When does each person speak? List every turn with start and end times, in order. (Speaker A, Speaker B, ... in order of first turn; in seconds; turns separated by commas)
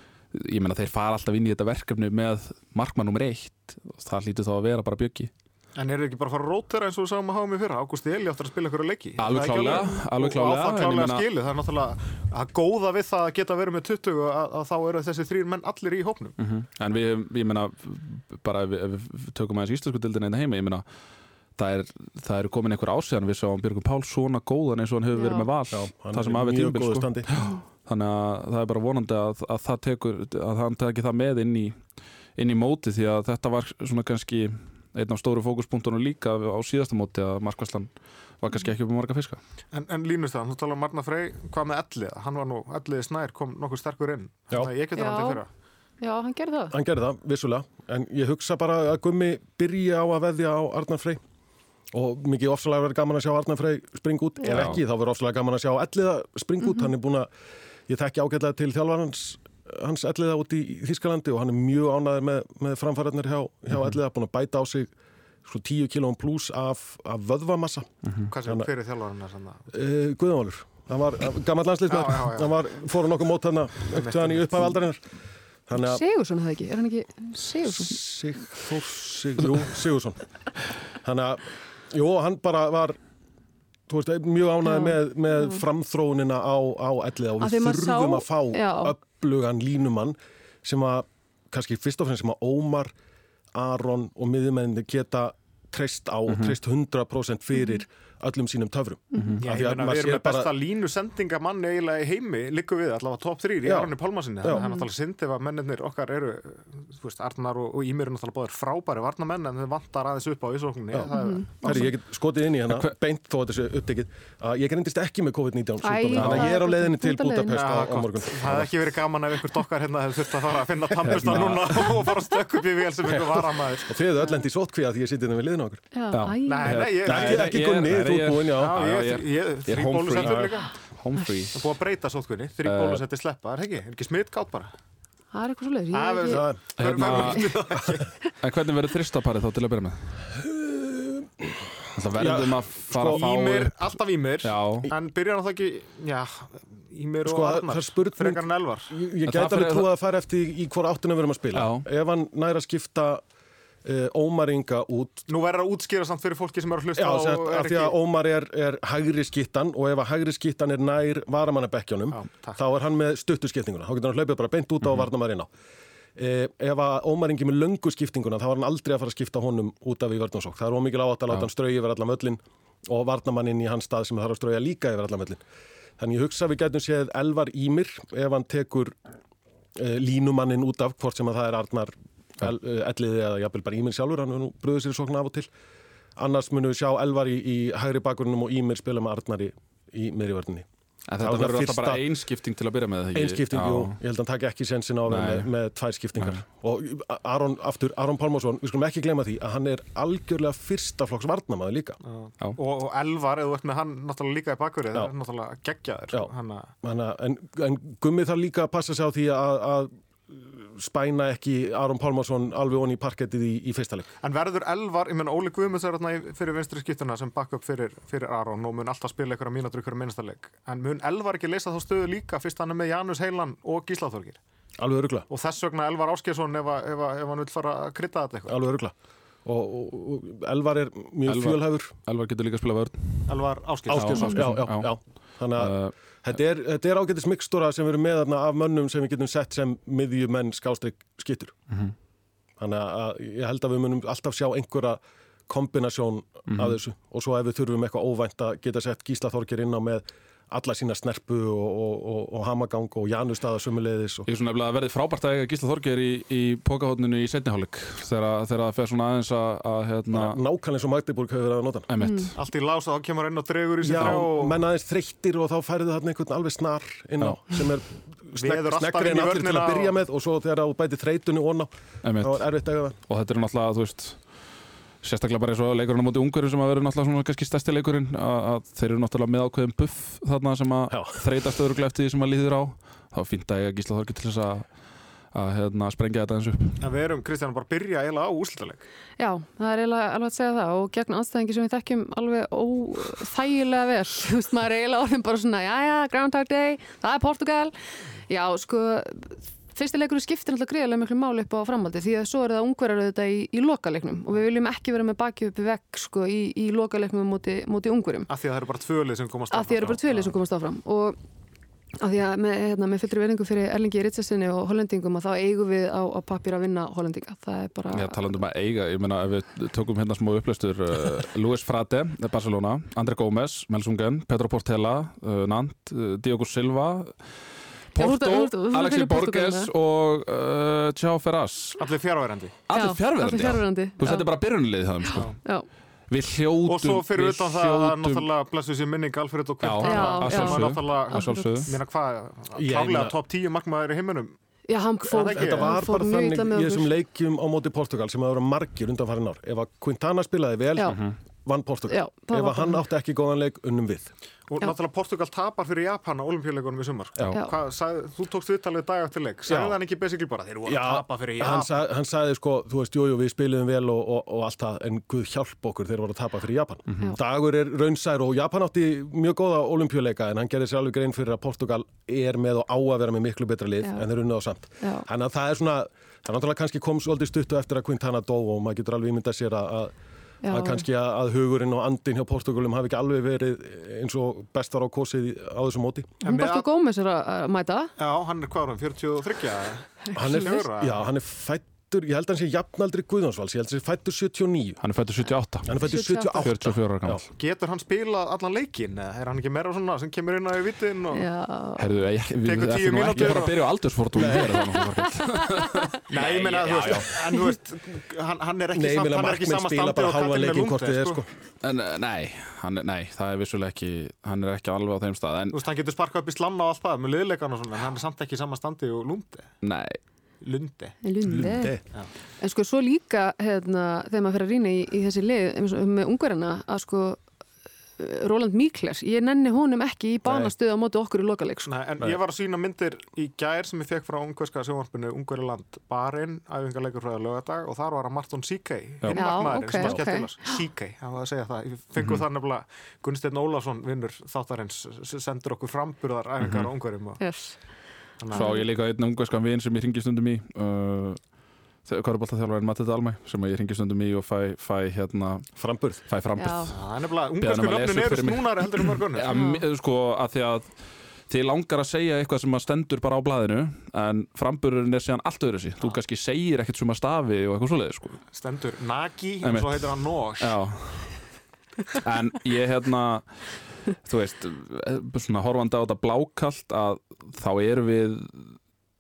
Speaker A: 0.3-5.3, Speaker B: 5.8-16.4, Speaker A: 9.2-11.2, Speaker A: 16.4-20.9, Speaker A: 21.6-31.8, Speaker C: 25.1-25.5, Speaker D: 25.7-27.3, Speaker A: 32.4-39.4, Speaker B: 39.7-45.5, Speaker C: 45.0-45.4, Speaker C: 46.0-46.8, Speaker D: 46.7-51.2, Speaker D: 51.9-57.3, Speaker A: 54.5-54.8, Speaker D: 57.9-64.9, Speaker D: 65.5-67.9, Speaker B: 68.3-69.7, Speaker D: 68.4-68.7, Speaker D: 69.7-75.0, Speaker B: 71.9-72.6, Speaker B: 73.9-74.8, Speaker D: 75.7-76.0, Speaker C: 75.7-78.0, Speaker D: 77.6-80.2, Speaker D: 81.0-83.0, Speaker D: 83.9-92.9, Speaker C: 84.6-85.6, Speaker C: 87.4-88.9, Speaker D: 93.5-100.6, Speaker A: 96.3-96.5, Speaker C: 99.1-99.4, Speaker A: 99.1-99.4, Speaker B: 99.4-111.9, Speaker D: 103.6-104.6, Speaker C: 104.5-104.8, Speaker D: 110.9-118.8, Speaker C: 111.1-111.9, Speaker C: 115.8-117.7, Speaker A: 116.2-116.5, Speaker B: 117.5-124.0, Speaker A: 121.0-122.1, Speaker D: 121.1-121.6, Speaker D: 123.1-125.8, Speaker C: 125.9-126.8, Speaker A: 126.1-131.7, Speaker B: 126.5-127.5, Speaker D: 127.0-128.8, Speaker B: 128.6-130.7, Speaker B: 131.5-134.7, Speaker A: 132.6-133.0, Speaker C: 135.3-137.4, Speaker B: 135.9-138.1, Speaker D: 136.3-136.6, Speaker A: 136.8-137.6, Speaker A: 138.4-140.2, Speaker D: 140.3-143.2, Speaker A: 141.9-144.9, Speaker B: 142.9-148.9, Speaker D: 147.2-153.2, Speaker A: 149.3-149.9, Speaker A: 151.5-151.8, Speaker D: 153.8-155.2, Speaker B: 155.3-158.0, Speaker D: 157.0-165.5, Speaker B: 162.1-162.6, Speaker D: 166.2-175.4, Speaker D: 176.0-178.9, Speaker D: 179.8-185.5, Speaker D: 186.2-190.7, Speaker A: 191.1-194.0, Speaker D: 191.2-192.0, Speaker D: 193.2-202.0, Speaker A: 195.1-195.5, Speaker B: 202.0-206.7, Speaker D: 206.8-214.1, Speaker B: 214.2-224.4, Speaker D: 224.8-225.3, Speaker B: 225.3-228.6, Speaker D: 228.5-228.9, Speaker D: 229.4-231.9, Speaker A: 231.3-235.9, Speaker B: 233.3-234.5, Speaker D: 233.9-241.6, Speaker A: 241.7-241.9, Speaker D: 242.6-254.3, Speaker A: 246.5-246.8, Speaker A: 254.3-260.4, Speaker D: 260.1-261.9, Speaker A: 261.9-262.4, Speaker C: 262.0-262.3, Speaker B: 262.4-264.6, Speaker D: 263.8-273.0, Speaker A: 264.0-264.2, Speaker A: 267.2-267.6, Speaker B: 268.4-269.9, Speaker A: 272.0-272.5, Speaker A: 273.1-274.3, Speaker A: 275.0-284.7, Speaker D: 280.9-281.2, Speaker A: 285.3-286.8, Speaker B: 286.8-288.9, Speaker C: 289.2-297.8, Speaker C: 298.3-308.3, Speaker B: 308.3-310.4, Speaker C: 309.5-311.2, Speaker C: 312.0-318.3, Speaker A: 317.9-327.3, Speaker A: 327.9-331.8, Speaker C: 328.0-329.7, Speaker B: 331.8-332.6, Speaker A: 332.7-335.4, Speaker C: 332.7-334.3, Speaker C: 335.0-335.7, Speaker A: 336.1-338.3, Speaker B: 336.6-344.3, Speaker A: 339.6-341.7, Speaker C: 339.8-341.7, Speaker D: 342.5-343.2, Speaker C: 344.7-346.9, Speaker B: 345.0-345.8, Speaker D: 345.4-354.1, Speaker C: 350.8-351.0, Speaker A: 350.9-351.2, Speaker C: 351.9-352.8, Speaker B: 354.5-361.7, Speaker D: 359.5-359.8, Speaker D: 360.6-379.9, Speaker A: 366.9-367.2, Speaker C: 374.8-375.1, Speaker C: 380.4-380.9, Speaker D: 380.5-386.1, Speaker B: 386.2-386.7, Speaker C: 386.2-387.9, Speaker B: 388.0-391.0, Speaker C: 390.1-390.6, Speaker D: 390.1-394.8, Speaker A: 394.8-395.8, Speaker D: 395.6-397.2, Speaker C: 395.8-396.5, Speaker A: 396.4-397.2, Speaker B: 397.4-401.3, Speaker C: 401.1-401.9, Speaker A: 401.8-407.3, Speaker B: 402.4-403.6, Speaker D: 404.1-404.7, Speaker C: 405.5-405.8, Speaker B: 406.1-411.2, Speaker D: 408.7-411.3, Speaker A: 411.6-415.6, Speaker B: 415.5-419.5, Speaker A: 419.6-420.0, Speaker B: 420.4-421.0, Speaker C: 421.0-421.8, Speaker D: 421.2-421.8, Speaker C: 422.4-427.2, Speaker C: 428.0-431.7, Speaker D: 430.2-430.5, Speaker B: 431.6-447.2, Speaker C: 439.1-440.6, Speaker A: 442.0-442.2, Speaker A: 446.4-446.7, Speaker C: 447.2-447.8, Speaker B: 448.2-448.6, Speaker C: 448.3-448.7, Speaker A: 448.3-456.9, Speaker D: 455.6-456.0, Speaker C: 456.4-456.8, Speaker B: 456.7-459.3, Speaker A: 457.4-460.8, Speaker C: 459.3-459.6, Speaker A: 461.3-468.2, Speaker B: 468.3-470.6, Speaker A: 469.4-471.2, Speaker A: 471.9-478.6